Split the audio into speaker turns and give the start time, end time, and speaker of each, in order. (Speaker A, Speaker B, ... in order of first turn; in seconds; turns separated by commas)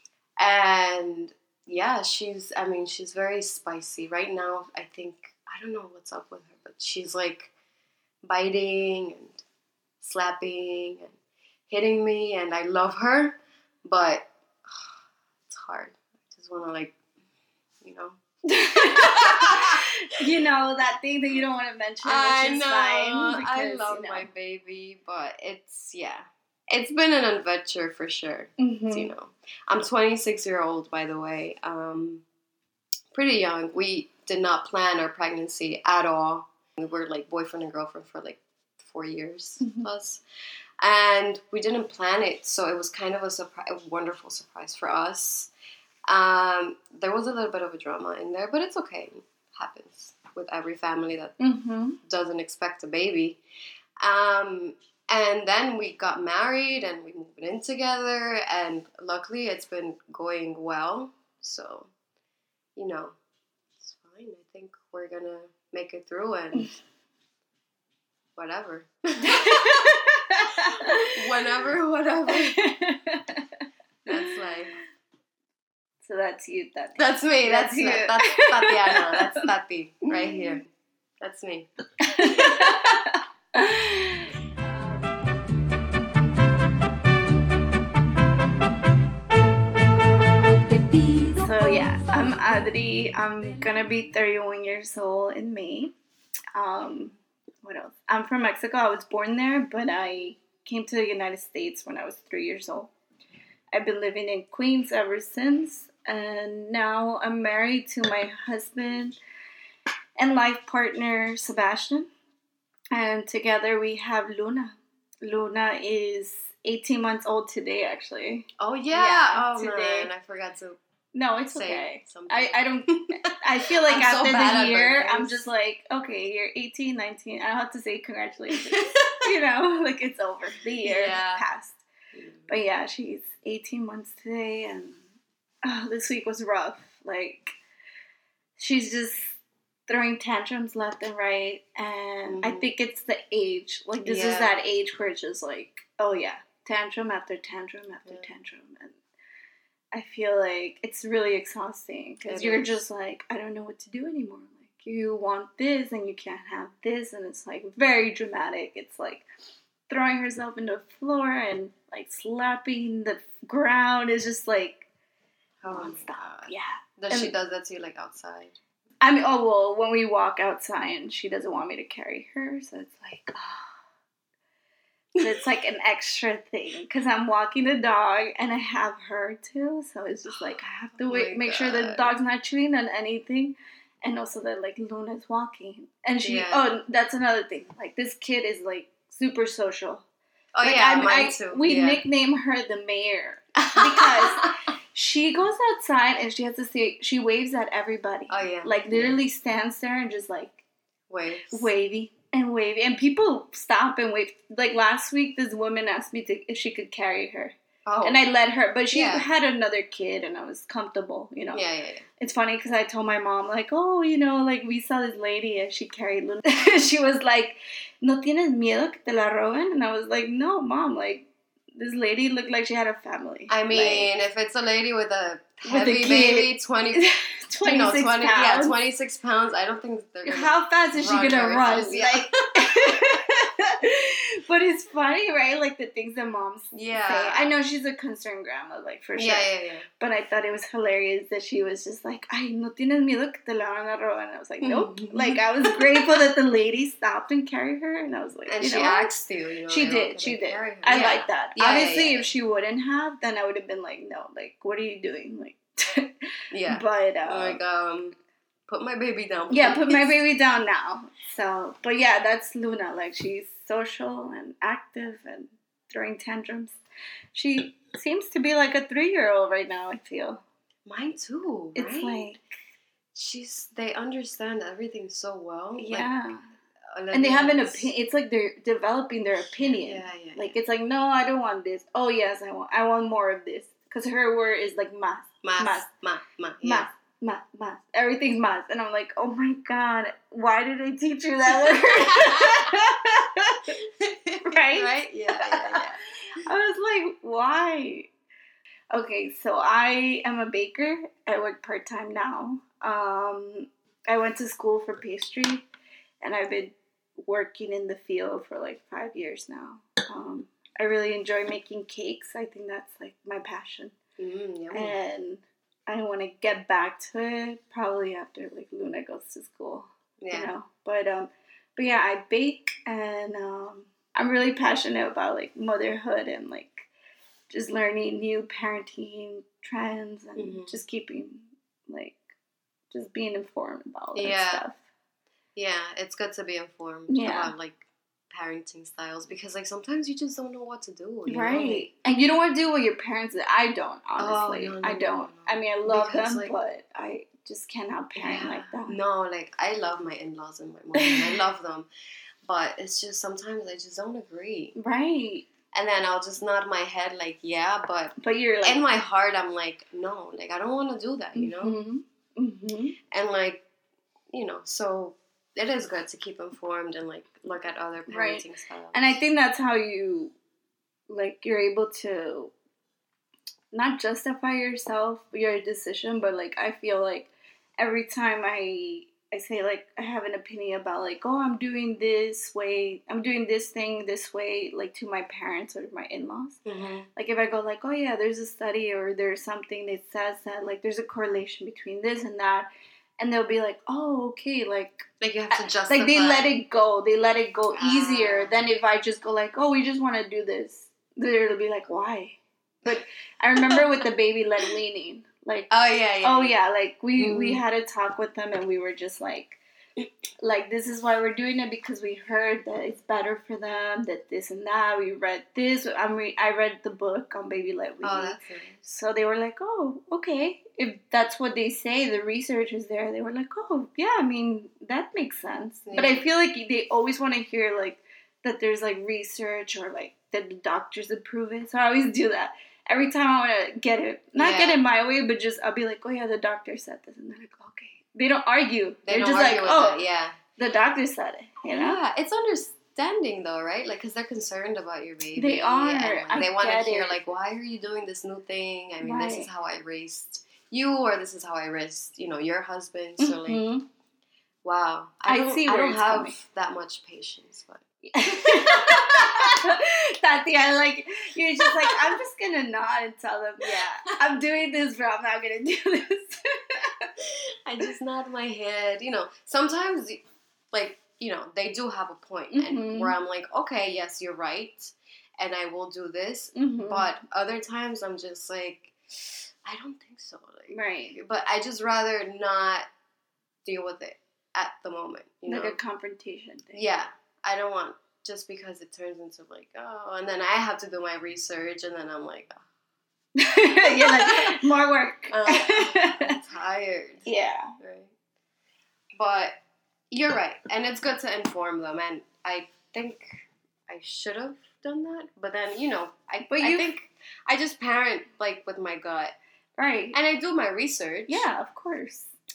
Speaker A: 0.4-7.5, Speaker A: 8.2-9.4, Speaker A: 10.0-11.2, Speaker A: 11.7-14.9, Speaker A: 15.5-16.9, Speaker A: 17.8-18.2, Speaker B: 18.5-24.3, Speaker A: 18.8-19.8, Speaker A: 22.0-32.2, Speaker B: 28.6-29.1, Speaker A: 33.1-40.2, Speaker B: 39.6-39.9, Speaker A: 40.8-45.5, Speaker A: 46.1-51.4, Speaker B: 51.4-52.0, Speaker A: 52.0-53.4, Speaker A: 54.0-61.9, Speaker A: 62.8-63.1, Speaker A: 63.8-66.7, Speaker A: 68.3-69.9, Speaker B: 69.2-71.2, Speaker A: 70.7-72.6, Speaker B: 72.3-73.4, Speaker A: 74.1-74.8, Speaker B: 74.1-74.4, Speaker B: 76.0-79.5, Speaker A: 77.0-80.7, Speaker A: 81.2-82.8, Speaker B: 82.0-84.3, Speaker B: 91.4-95.9, Speaker B: 96.5-102.9, Speaker B: 103.7-109.2, Speaker B: 110.2-112.1, Speaker B: 112.9-120.1, Speaker A: 118.6-120.8, Speaker B: 121.1-131.8, Speaker A: 121.5-125.5, Speaker A: 128.6-129.3, Speaker A: 130.8-131.4, Speaker A: 132.1-132.5, Speaker B: 132.5-135.0, Speaker B: 135.6-137.6, Speaker B: 138.6-149.0, Speaker A: 142.3-142.7, Speaker A: 144.0-144.6, Speaker B: 149.9-159.2, Speaker A: 152.3-152.7, Speaker B: 159.9-164.8, Speaker A: 165.6-168.6, Speaker B: 165.7-167.3, Speaker B: 169.0-173.7, Speaker B: 175.2-190.1, Speaker A: 180.3-180.5, Speaker A: 181.1-182.1, Speaker A: 186.2-186.7, Speaker A: 190.5-192.0, Speaker B: 190.6-200.6, Speaker A: 193.6-194.5, Speaker A: 198.3-199.2, Speaker A: 201.1-201.7, Speaker B: 201.5-211.6, Speaker A: 207.8-208.2, Speaker A: 208.9-209.3, Speaker A: 211.5-212.1, Speaker B: 212.2-221.2, Speaker B: 221.8-224.1, Speaker A: 223.5-227.1, Speaker B: 225.6-228.8, Speaker A: 227.6-232.9, Speaker B: 230.2-249.2, Speaker A: 236.7-237.5, Speaker A: 239.2-239.9, Speaker A: 244.6-246.2, Speaker A: 248.5-252.3, Speaker B: 249.7-256.1, Speaker A: 256.5-258.1, Speaker B: 256.7-257.6, Speaker A: 258.7-260.2, Speaker B: 259.5-266.8, Speaker B: 267.3-270.4, Speaker A: 270.9-272.3, Speaker B: 271.7-272.4, Speaker A: 273.1-276.1, Speaker B: 275.8-276.4, Speaker A: 276.9-277.9, Speaker B: 277.1-285.9, Speaker A: 279.6-280.6, Speaker A: 285.4-286.9, Speaker B: 286.6-293.8, Speaker A: 291.6-292.9, Speaker A: 294.0-296.0, Speaker B: 294.4-298.1, Speaker B: 298.9-305.6, Speaker B: 306.2-313.9, Speaker A: 314.2-315.0, Speaker B: 314.7-326.9, Speaker A: 320.2-320.5, Speaker B: 327.5-332.2, Speaker A: 330.4-330.8, Speaker B: 332.9-334.8, Speaker A: 334.1-334.6, Speaker A: 335.5-341.9, Speaker B: 337.1-337.5, Speaker B: 341.2-349.0, Speaker A: 344.2-346.5, Speaker A: 348.1-351.9, Speaker B: 350.9-351.4, Speaker A: 352.4-354.8, Speaker B: 354.8-355.5, Speaker A: 355.7-361.8, Speaker B: 358.2-358.8, Speaker B: 361.4-363.0, Speaker A: 363.1-363.6, Speaker A: 364.3-369.2, Speaker B: 368.1-370.3, Speaker B: 371.1-372.5, Speaker B: 373.7-386.6, Speaker A: 386.6-387.1, Speaker B: 387.1-392.7, Speaker B: 393.2-409.6, Speaker A: 395.2-396.6, Speaker A: 397.7-398.7, Speaker A: 403.6-403.9, Speaker A: 405.7-406.6, Speaker A: 407.1-407.6, Speaker B: 410.4-440.0, Speaker A: 418.0-418.8, Speaker A: 425.9-426.2, Speaker A: 434.4-434.8, Speaker A: 439.1-440.4, Speaker B: 440.6-442.0, Speaker A: 441.6-453.6, Speaker B: 445.4-447.2, Speaker B: 449.0-449.5, Speaker B: 453.2-453.8, Speaker A: 454.6-459.7, Speaker B: 455.2-456.4, Speaker B: 458.1-467.1, Speaker A: 461.6-462.1, Speaker A: 467.6-482.9, Speaker B: 472.5-473.1, Speaker B: 476.5-477.1, Speaker B: 480.7-481.2, Speaker A: 483.6-485.8, Speaker B: 485.5-486.8, Speaker A: 486.7-492.6, Speaker B: 493.4-496.4, Speaker A: 493.9-494.6, Speaker A: 495.3-497.3, Speaker B: 497.2-497.7, Speaker A: 497.8-498.1, Speaker A: 499.1-499.6, Speaker A: 500.1-509.3, Speaker B: 506.5-506.9, Speaker B: 509.8-510.1, Speaker A: 510.1-511.4, Speaker B: 511.3-512.3